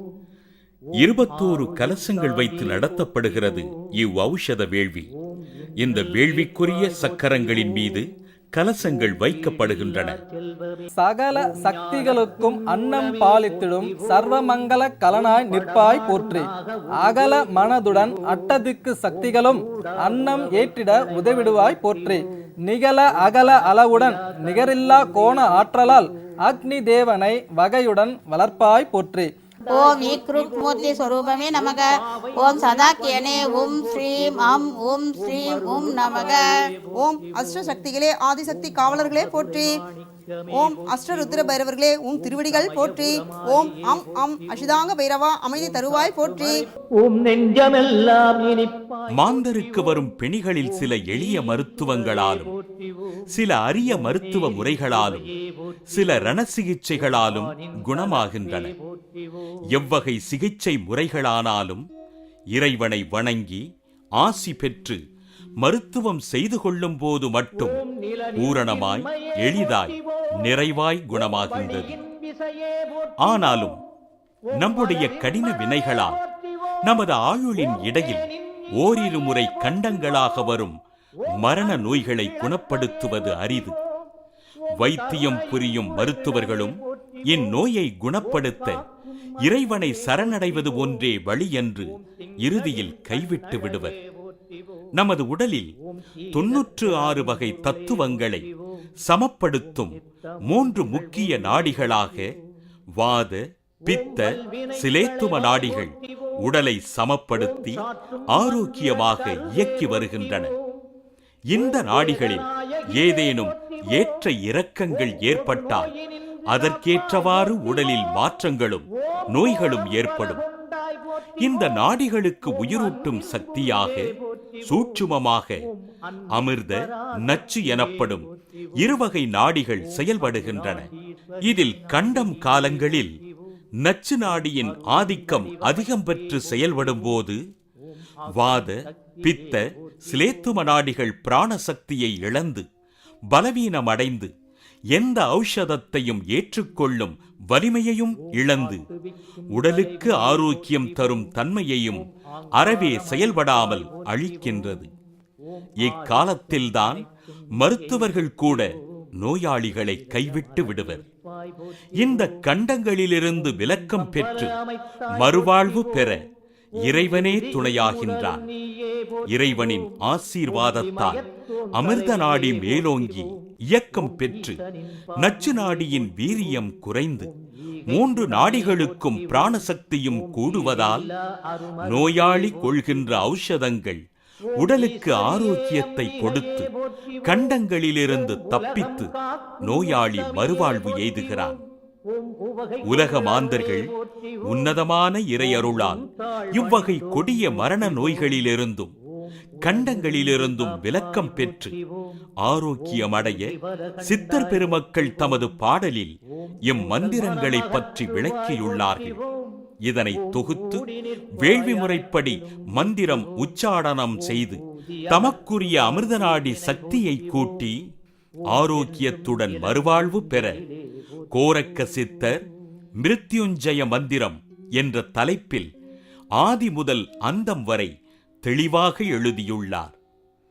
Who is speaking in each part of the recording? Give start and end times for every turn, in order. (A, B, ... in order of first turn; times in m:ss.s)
0:01.0-0:05.1 A
0:01.5-0:02.9 B
0:05.8-0:10.2 A
0:06.0-0:07.9 B
0:09.2-0:10.8 B
0:10.9-0:29.3 C
0:29.7-0:30.6 B
0:29.7-0:36.3 D
0:31.6-0:34.4 B
0:35.4-0:36.8 B
0:37.0-0:39.8 E
0:38.6-0:41.3 B
0:40.5-0:46.6 E
0:42.4-0:43.8 B
0:46.0-0:46.4 B
0:46.9-0:49.9 B
0:49.1-0:52.5 A
0:51.2-0:52.7 B
0:53.3-0:55.3 A
0:54.4-0:54.8 B
0:55.9-0:58.7 A
0:57.2-0:58.8 B
0:59.7-1:01.8 A
1:02.5-1:03.6 A
1:04.2-1:05.0 A
1:05.6-1:07.8 A
1:07.7-1:10.2 B
1:08.4-1:12.0 A
1:11.5-1:13.6 B
1:13.2-1:13.8 A
1:14.6-1:16.2 A
1:14.6-1:16.2 B
1:16.8-1:20.8 A
1:17.8-1:19.4 B
1:21.3-1:23.7 A
1:21.6-1:23.2 B
1:24.8-1:28.8 A
1:24.9-1:27.3 B
1:29.4-1:34.0 A
1:30.1-1:30.9 B
1:32.5-1:34.1 B
1:35.0-1:35.7 A
1:36.3-1:38.5 A
1:36.4-1:38.2 B
1:39.0-1:42.3 A
1:40.7-1:41.9 B
1:43.0-1:50.5 A
1:44.0-1:46.3 B
1:47.6-1:50.5 B
1:51.5-1:55.9 A
1:51.6-1:54.1 B
1:55.1-1:58.0 B
1:56.5-2:00.4 A
1:59.6-2:01.7 B
2:01.4-2:04.1 A
2:02.7-2:04.6 B
2:04.6-2:05.6 A
2:06.3-2:08.3 A
2:07.3-2:08.1 B
2:08.8-2:10.9 A
2:10.4-2:10.8 B
2:11.4-2:13.2 A
2:11.5-2:13.0 B
2:13.8-2:17.4 A
2:14.8-2:16.8 B
2:18.3-2:22.6 A
2:23.3-2:24.3 A
2:24.9-2:28.8 A
2:28.5-2:28.8 B
2:29.5-2:34.9 A
2:29.8-2:31.1 B
2:32.6-2:34.7 B
2:35.8-2:37.0 A
2:35.9-2:36.8 B
2:37.6-2:41.0 A
2:37.8-2:38.1 B
2:40.2-2:40.8 B
2:42.0-2:44.6 A
2:43.7-2:46.2 B
2:45.1-2:46.2 A
2:46.8-2:48.5 A
2:47.1-2:49.4 B
2:49.2-2:54.6 A
2:50.6-2:51.3 B
2:51.8-2:53.2 B
2:54.1-2:54.5 B
2:55.2-2:57.3 A
2:55.3-2:55.8 B
2:57.9-3:01.1 A
2:57.9-2:59.4 B
3:00.3-3:02.4 B
3:01.8-3:04.0 A
3:04.6-3:06.7 A
3:04.6-3:07.4 B
3:07.2-3:11.6 A
3:08.3-3:11.5 B
3:12.1-3:14.3 B
3:12.8-3:13.9 A
3:14.5-3:18.9 A
3:15.6-3:18.2 B
3:19.6-3:21.7 A
3:19.7-3:21.6 B
3:22.4-3:29.2 A
3:23.8-3:24.7 B
3:26.8-3:29.5 B
3:29.8-3:37.8 A
3:30.4-3:32.1 B
3:36.1-3:37.3 B
3:38.5-3:40.6 A
3:38.7-3:40.5 B
3:41.3-3:42.4 A
3:43.0-3:45.7 A
3:46.4-3:47.9 A
3:48.4-3:50.0 A